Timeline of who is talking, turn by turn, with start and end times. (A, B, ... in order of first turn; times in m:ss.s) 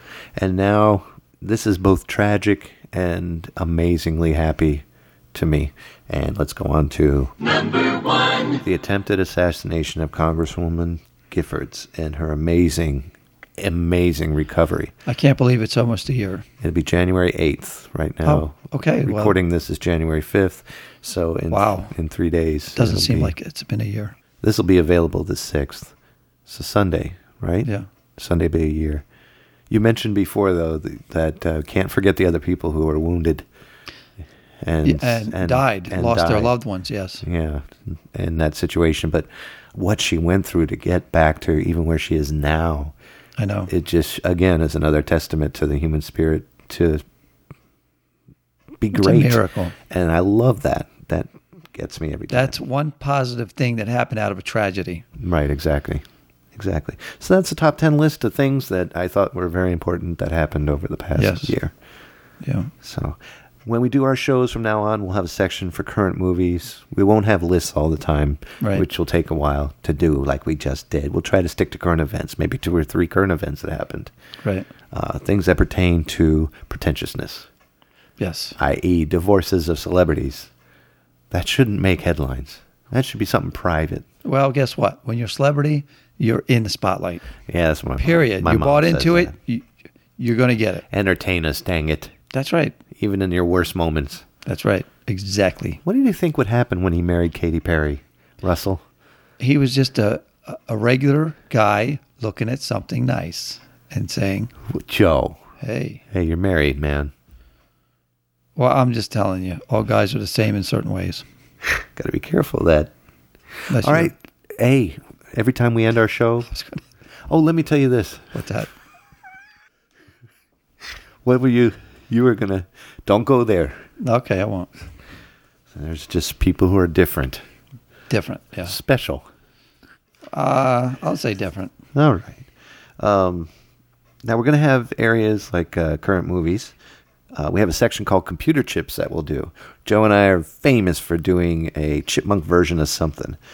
0:00.4-0:14.9 A
0:15.0-0:16.4 B
0:16.6-0:23.3 A
0:18.2-0:19.4 B
0:21.5-0:21.9 B
0:22.7-0:24.1 B
0:24.4-0:25.9 A
0:26.4-0:29.0 A
0:29.7-0:33.5 A
0:34.6-0:36.5 A
0:34.8-0:37.2 B
0:37.2-0:42.9 A
0:43.4-0:43.7 B
0:43.7-0:47.0 A
0:48.8-0:52.6 A
0:48.9-0:49.7 B
0:52.3-0:55.0 B
0:55.2-0:56.0 A
0:56.5-1:01.7 A
1:01.2-1:01.5 B
1:02.4-1:02.7 B
1:02.8-1:14.1 A
1:08.6-1:08.8 B
1:14.4-1:14.7 B
1:14.9-1:17.5 A
1:18.2-1:18.6 B
1:18.6-1:20.5 A
1:21.3-1:24.0 A
1:24.2-1:27.2 B
1:27.4-1:29.3 A
1:28.0-1:29.6 B
1:30.2-1:30.8 B
1:30.9-1:32.1 A
1:32.3-1:32.8 B
1:32.9-1:34.2 A
1:34.4-1:35.8 B
1:35.8-1:38.8 A
1:39.4-1:44.5 B
1:44.7-1:45.4 A
1:45.6-1:46.0 B
1:46.1-1:47.1 A
1:48.6-1:51.2 B
1:51.9-1:52.9 A
1:53.7-1:54.1 B
1:53.8-1:56.5 A
1:56.5-1:56.8 B
1:57.3-1:58.4 A
1:58.3-1:58.7 B
2:01.2-2:03.8 A
2:04.0-2:04.7 B
2:05.7-2:07.4 A
2:08.1-2:08.7 B
2:08.6-2:09.3 A
2:10.3-2:11.7 B
2:11.9-2:12.5 A
2:13.0-2:13.5 A
2:14.2-2:16.7 A
2:17.3-2:23.4 A